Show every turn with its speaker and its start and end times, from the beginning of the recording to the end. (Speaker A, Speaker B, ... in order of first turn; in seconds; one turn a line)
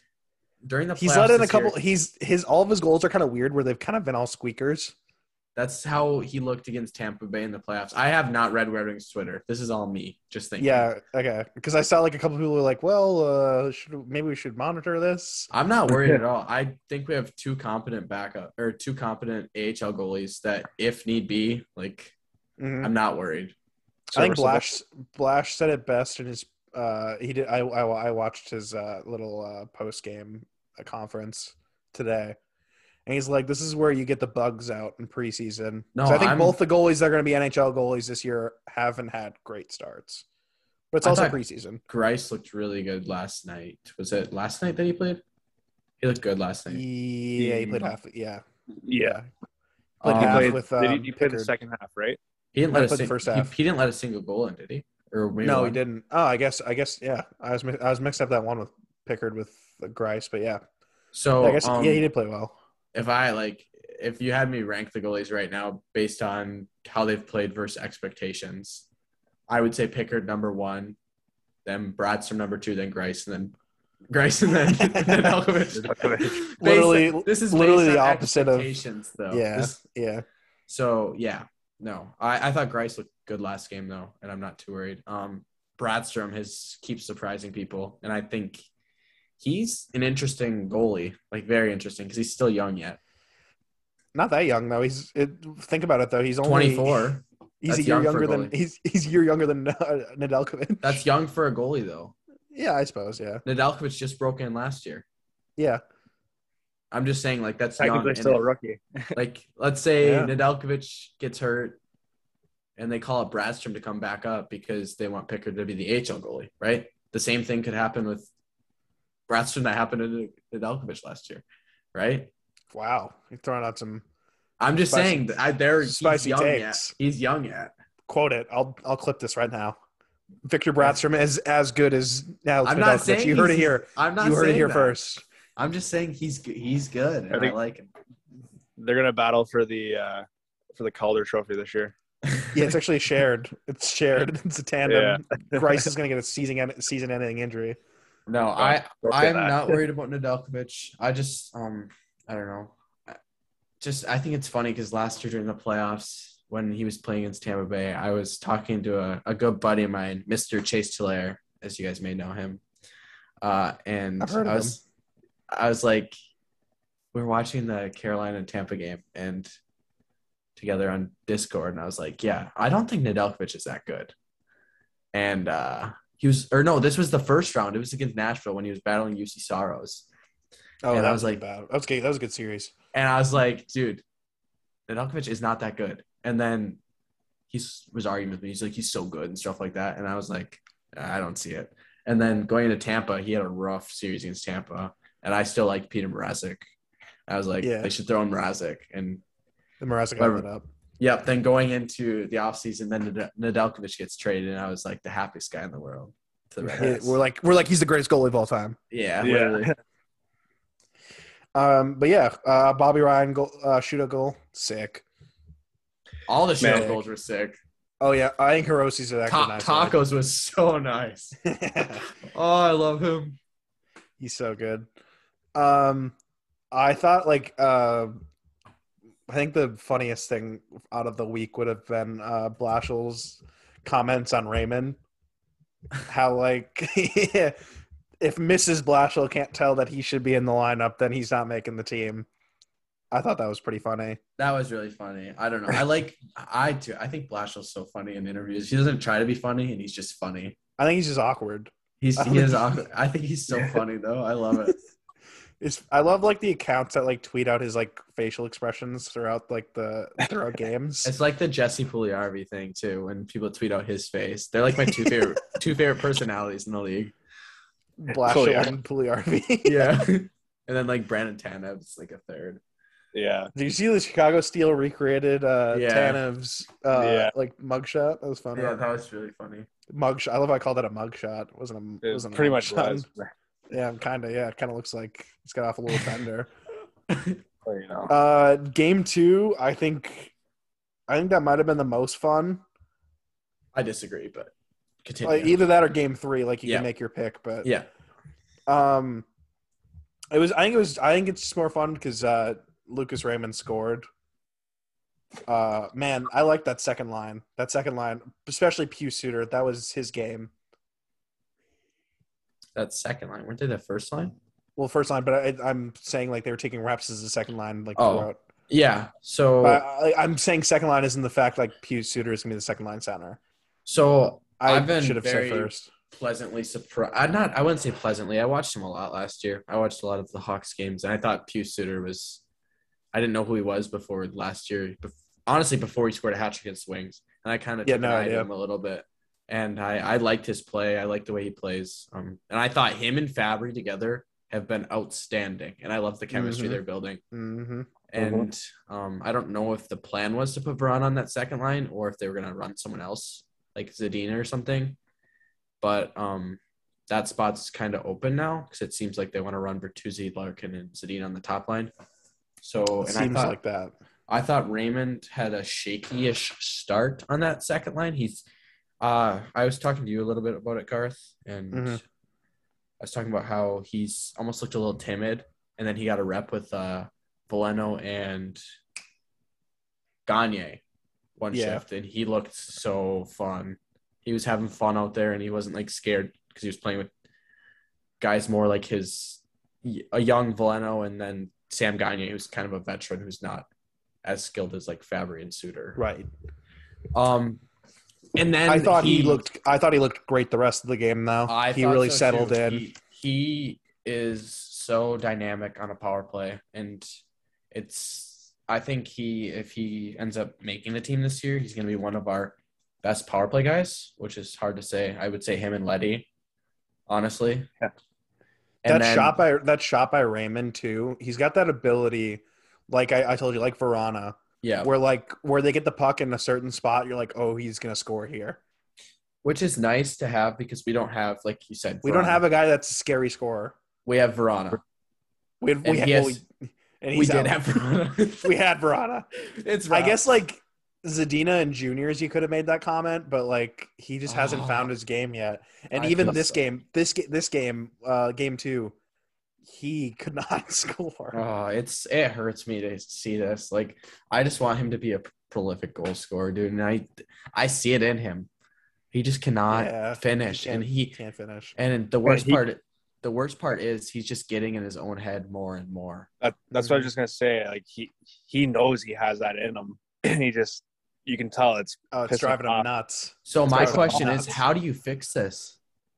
Speaker A: 0.6-1.8
Speaker B: 1.0-5.0
Speaker A: 5.6-10.9
Speaker B: 10.6-15.5
Speaker A: 15.5-22.1
Speaker B: 22.6-22.9
Speaker A: 22.8-23.6
Speaker B: 24.1-32.4
Speaker C: 24.2-24.6
Speaker B: 33.1-40.2
Speaker A: 36.0-36.6
Speaker B: 40.9-41.8
Speaker A: 41.0-45.2
Speaker A: 46.0-46.8
Speaker B: 46.7-48.4
Speaker C: 47.4-47.9
Speaker C: 48.8-49.2
Speaker B: 49.0-49.3
Speaker A: 50.0-50.6
Speaker B: 50.0-51.5
Speaker C: 50.1-52.2
Speaker A: 52.5-55.8
Speaker B: 52.7-53.5
Speaker B: 55.4-60.6
Speaker A: 61.1-62.1
Speaker B: 61.4-62.5
Speaker A: 62.9-68.9
Speaker A: 69.5-71.0
Speaker A: 71.7-73.5
Speaker A: 74.1-79.8
Speaker B: 74.8-75.3
Speaker C: 75.8-76.4
Speaker B: 76.6-80.2
Speaker A: 80.7-88.6
Speaker A: 89.4-93.0
Speaker B: 94.2-97.1
Speaker A: 96.4-98.5
Speaker B: 97.6-101.0
Speaker A: 100.8-102.1
Speaker B: 102.5-103.4
Speaker A: 103.5-105.0
Speaker B: 105.6-105.8
Speaker A: 106.9-108.4
Speaker C: 107.8-109.2
Speaker A: 109.2-111.8
Speaker B: 110.0-110.3
Speaker A: 112.8-118.3
Speaker A: 119.3-122.3
Speaker B: 122.7-124.0
Speaker A: 124.6-127.7
Speaker B: 124.9-125.2
Speaker B: 125.8-127.0
Speaker B: 128.1-129.8
Speaker B: 130.5-135.2
Speaker A: 132.6-135.0
Speaker A: 135.6-137.9
Speaker C: 137.3-137.6
Speaker C: 138.8-141.9
Speaker A: 142.3-142.7
Speaker B: 142.5-147.8
Speaker C: 144.9-145.9
Speaker A: 148.3-153.2
Speaker C: 148.6-149.8
Speaker A: 153.8-162.6
Speaker A: 163.4-164.8
Speaker B: 164.2-164.8
Speaker A: 165.5-166.1
Speaker A: 167.1-169.5
Speaker A: 170.6-174.1
Speaker A: 175.1-180.1
Speaker B: 180.8-182.7
Speaker A: 180.9-181.4
Speaker A: 182.9-184.0
Speaker A: 184.9-186.8
Speaker A: 187.5-196.6
Speaker A: 197.3-199.2
Speaker B: 197.6-197.9
Speaker B: 199.8-200.7
Speaker A: 200.2-200.5
Speaker A: 201.0-207.2
Speaker B: 206.7-208.8
Speaker A: 208.9-209.7
Speaker C: 209.2-209.8
Speaker B: 211.6-215.1
Speaker A: 216.3-217.6
Speaker C: 216.6-217.0
Speaker B: 216.7-217.0
Speaker B: 218.0-220.0
Speaker A: 219.3-221.4
Speaker B: 221.4-222.1
Speaker A: 222.3-223.4
Speaker B: 224.2-224.9
Speaker B: 225.6-226.2
Speaker B: 226.7-228.2
Speaker B: 229.3-235.0
Speaker B: 236.1-237.6
Speaker B: 238.2-242.3
Speaker B: 243.1-244.2
Speaker A: 244.4-250.6
Speaker B: 250.8-252.8
Speaker A: 252.0-254.8
Speaker B: 255.6-261.1
Speaker A: 261.0-267.1
Speaker B: 264.9-265.2
Speaker B: 268.0-270.0
Speaker C: 268.2-268.7
Speaker A: 269.6-272.6
Speaker C: 273.1-273.5
Speaker B: 273.6-278.8
Speaker A: 275.7-276.2
Speaker C: 276.9-277.3
Speaker A: 278.5-279.7
Speaker B: 279.9-283.1
Speaker C: 282.0-283.3
Speaker B: 283.7-286.5
Speaker A: 287.1-287.4
Speaker C: 287.6-288.1
Speaker B: 288.1-290.3
Speaker B: 291.1-292.6
Speaker A: 293.7-294.5
Speaker A: 295.0-295.6
Speaker B: 295.2-297.7
Speaker A: 297.6-297.9
Speaker B: 298.7-299.2
Speaker B: 300.3-304.1
Speaker B: 305.5-310.5
Speaker A: 312.8-314.4
Speaker B: 314.8-318.4
Speaker A: 318.0-319.8
Speaker B: 319.6-323.4
Speaker A: 323.9-332.4
Speaker B: 324.6-325.9
Speaker A: 333.1-347.2
Speaker B: 337.8-338.5
Speaker B: 346.3-347.9
Speaker A: 348.1-355.0
Speaker C: 348.2-348.5
Speaker A: 355.8-361.9
Speaker A: 362.6-363.6
Speaker B: 363.0-363.9
Speaker A: 364.3-368.4
Speaker A: 369.0-372.0
Speaker B: 371.7-372.0
Speaker A: 373.0-378.6
Speaker A: 380.3-380.8
Speaker A: 381.4-387.1
Speaker B: 381.5-381.8
Speaker A: 388.2-393.7
Speaker A: 394.2-396.0
Speaker B: 396.0-396.3
Speaker A: 397.1-397.6
Speaker A: 398.4-399.4
Speaker B: 398.7-402.9
Speaker A: 401.5-407.1
Speaker A: 407.7-416.3
Speaker A: 417.1-417.7
Speaker A: 418.8-419.4
Speaker B: 418.9-428.6
Speaker A: 424.6-424.9
Speaker A: 429.4-432.4
Speaker B: 432.0-433.8
Speaker A: 434.1-434.8
Speaker B: 435.6-437.6
Speaker A: 435.8-436.4
Speaker A: 437.1-438.5
Speaker B: 438.3-439.3
Speaker A: 439.5-440.4
Speaker B: 439.9-448.9
Speaker A: 444.3-444.9
Speaker A: 445.9-446.6
Speaker B: 449.6-451.4
Speaker A: 451.3-458.5
Speaker A: 459.1-461.2
Speaker B: 459.7-461.8
Speaker A: 461.8-466.3
Speaker C: 462.2-462.6
Speaker C: 466.4-472.9
Speaker B: 466.7-467.1
Speaker B: 472.1-474.6
Speaker A: 473.5-475.8
Speaker C: 473.7-474.5